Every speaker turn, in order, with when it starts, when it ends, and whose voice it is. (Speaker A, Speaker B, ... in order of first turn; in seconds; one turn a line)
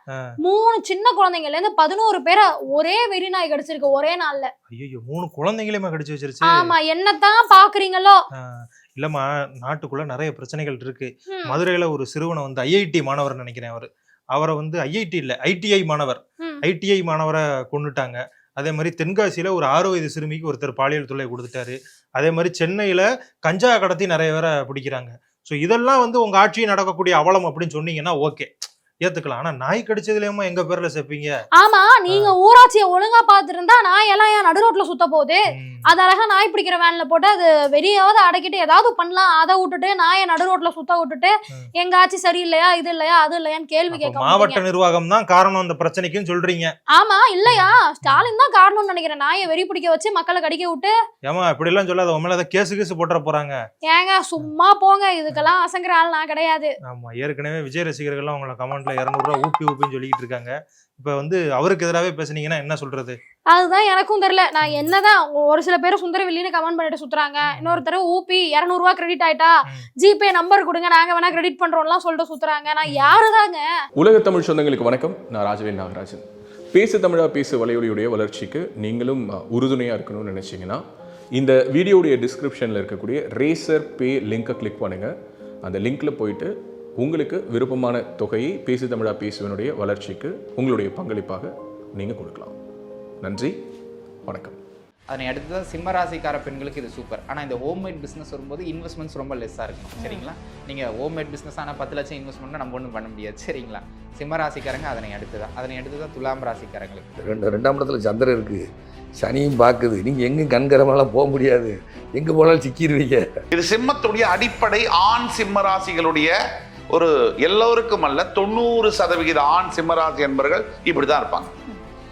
Speaker A: 0.4-4.5
Speaker B: 4.7-6.7
Speaker A: 6.5-8.2
Speaker B: 9.0-28.5
Speaker A: 11.3-11.6
Speaker B: 29.1-31.3
Speaker A: 31.6-44.6
Speaker B: 35.5-35.9
Speaker B: 43.9-46.7
Speaker A: 46.9-50.9
Speaker B: 47.5-48.3
Speaker B: 51.2-53.5
Speaker A: 53.9-56.7
Speaker B: 56.9-63.2
Speaker A: 63.5-73.6
Speaker B: 64.6-64.9
Speaker B: 67.5-67.8
Speaker B: 72.9-73.2
Speaker C: 74.0-80.8
Speaker C: 81.4-85.1
Speaker C: 85.7-92.5
Speaker C: 93.2-93.5
Speaker C: 94.3-94.6
Speaker D: 95.1-107.2
Speaker A: 100.0-100.2
Speaker E: 107.2-108.6
Speaker E: 109.2-113.3
Speaker F: 113.6-116.3
Speaker F: 117.0-121.5